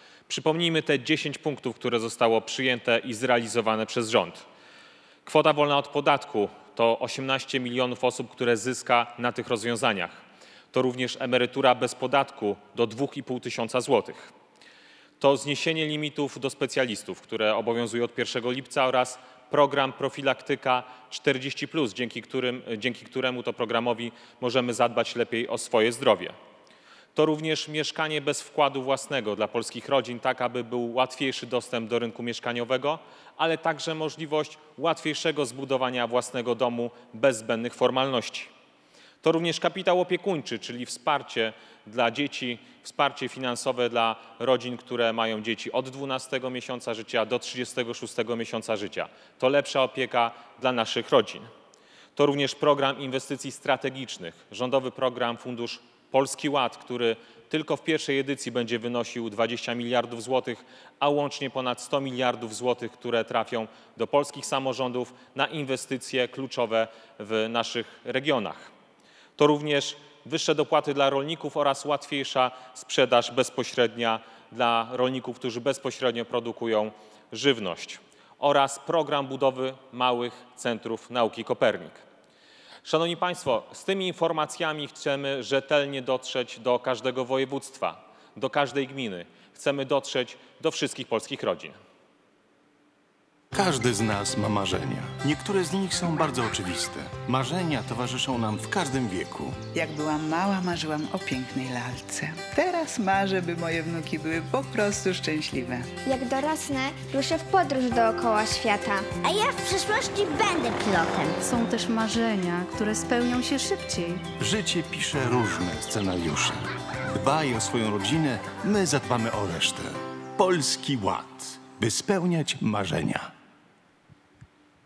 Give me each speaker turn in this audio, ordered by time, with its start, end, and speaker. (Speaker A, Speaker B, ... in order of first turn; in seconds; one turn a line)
Speaker A: 0.3-4.5
Speaker A: 5.3-14.3
Speaker A: 15.2-26.4
Speaker A: 27.1-38.5
Speaker A: 39.2-51.5
Speaker A: 52.2-68.7
Speaker A: 69.4-82.0
Speaker A: 82.8-91.8
Speaker B: 93.5-99.7
Speaker C: 99.7-105.9
Speaker D: 106.0-109.1
Speaker E: 109.2-111.4
Speaker F: 111.4-114.3
Speaker B: 114.4-123.3